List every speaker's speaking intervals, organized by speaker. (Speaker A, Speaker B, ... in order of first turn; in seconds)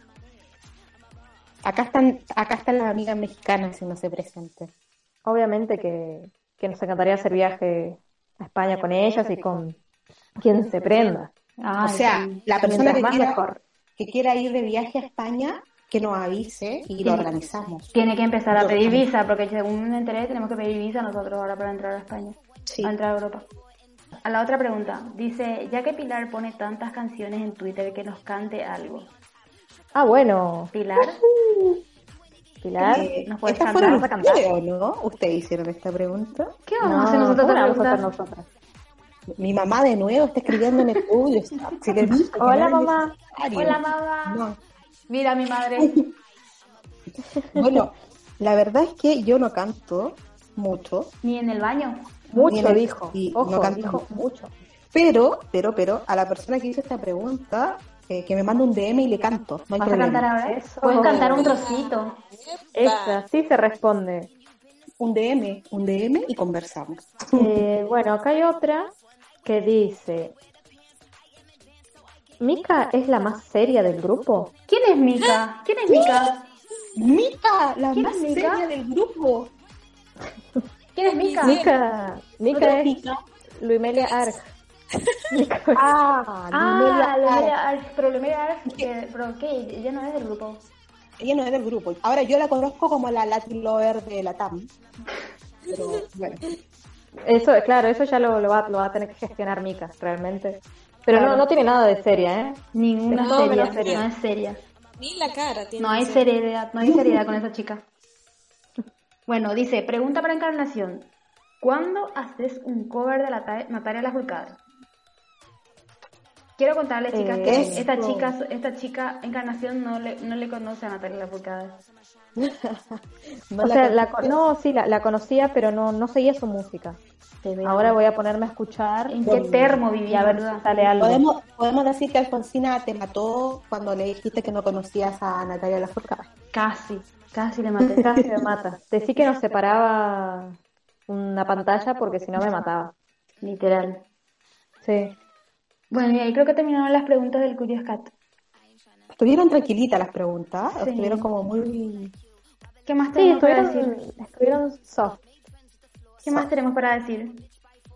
Speaker A: 1.6-4.7, 11.8-13.4, 14.0-17.9, 18.5-19.0, 22.7-22.9, 32.8-36.5, 39.4-44.6, 45.8-46.1, 47.5-51.1, 52.5-54.0, 54.9-60.3, 65.0-67.5, 77.0-79.5, 82.5-83.2, 85.7-87.5, 91.2-94.7, 95.7-96.4, 106.8-107.2, 117.5-118.3, 122.4-124.4, 129.2-129.8, 131.0-136.3, 149.1-152.2
Speaker B: 5.2-9.8, 10.4-11.3, 13.0-13.6, 29.9-31.8, 32.6-33.1, 33.8-34.4, 36.8-38.5, 42.3-43.2, 47.5-47.8, 52.3-54.5, 60.4-61.5, 62.7-64.3, 67.3-68.9, 69.4-70.3, 72.4-74.5, 81.4-82.9, 83.6-84.4, 85.3-85.9, 97.2-104.0, 117.1-117.9, 123.6-127.0, 127.6-129.4, 130.1-131.2, 138.0-142.9, 144.8-145.2, 153.2-155.2
Speaker C: 11.6-13.3, 17.9-23.5, 24.2-29.1, 30.7-31.2, 33.2-34.4, 36.7-38.1, 43.5-44.4, 45.1-45.9, 51.2-52.1, 59.8-62.2, 74.7-76.5, 78.0-78.7, 81.0-81.7, 86.5-90.7, 101.1-101.4, 102.7-104.6, 105.8-107.8, 109.3-111.1, 111.6-114.6, 116.6-121.9, 127.4-128.0, 129.1-130.9, 136.5-138.0, 143.4-144.0, 145.9-148.1, 150.7-151.3, 152.9-153.9, 156.3-157.5
Speaker D: 61.0-63.2, 81.1-81.7, 95.7-96.0, 103.1-104.1, 105.0-106.3